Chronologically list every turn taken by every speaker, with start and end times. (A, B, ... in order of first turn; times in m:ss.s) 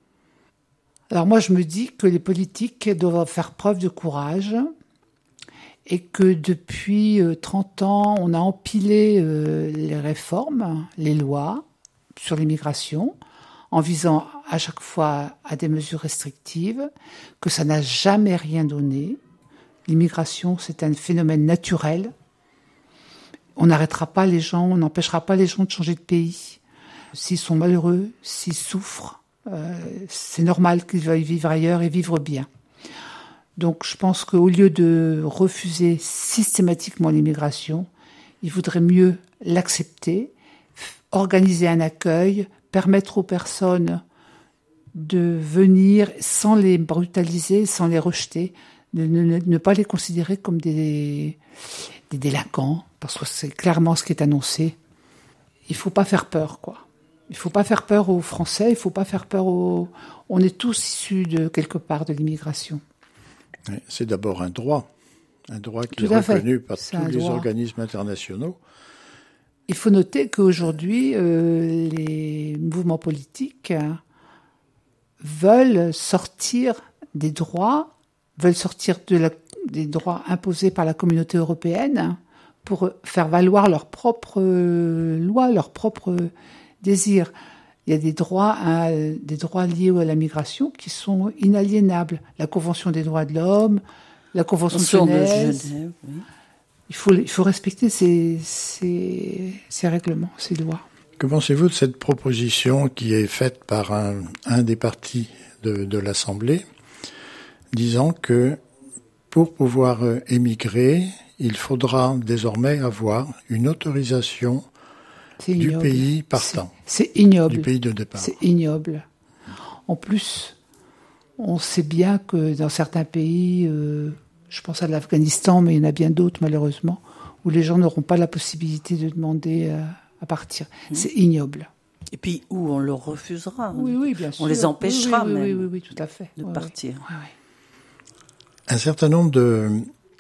0:01.1-0:04.7 A
0:05.9-0:11.6 A
0:12.2-0:13.2 A
0:13.7-0:16.9 A
0:17.4-0:19.2 A
0:19.9-0:22.1 A
0:23.6-0:26.6 A
0:27.1-0:32.5 A
0:33.6-0:37.9 A
0:38.4-0:44.0 A
0:44.9-0:51.4 A
0:52.1-0:54.8 A
0:55.7-1:02.8 A
1:03.7-1:04.9 B
1:05.5-1:08.6 B
1:05.9-1:07.5 A
1:09.7-1:14.0 A
1:15.2-1:27.3 A
1:27.9-1:33.8 A
1:34.3-1:35.7 A
1:34.7-1:36.3 C
1:36.9-1:40.8 A
1:41.2-1:46.6 B
1:47.7-1:48.6 B
1:49.3-1:54.7 B
1:55.4-1:59.1 A
1:55.6-1:56.7 B
1:57.5-1:58.4 B
1:59.9-2:00.6 A
2:01.4-2:11.7 A
2:12.1-2:15.7 C
2:13.7-2:17.3 A
2:16.4-2:17.1 C
2:18.7-2:19.9 B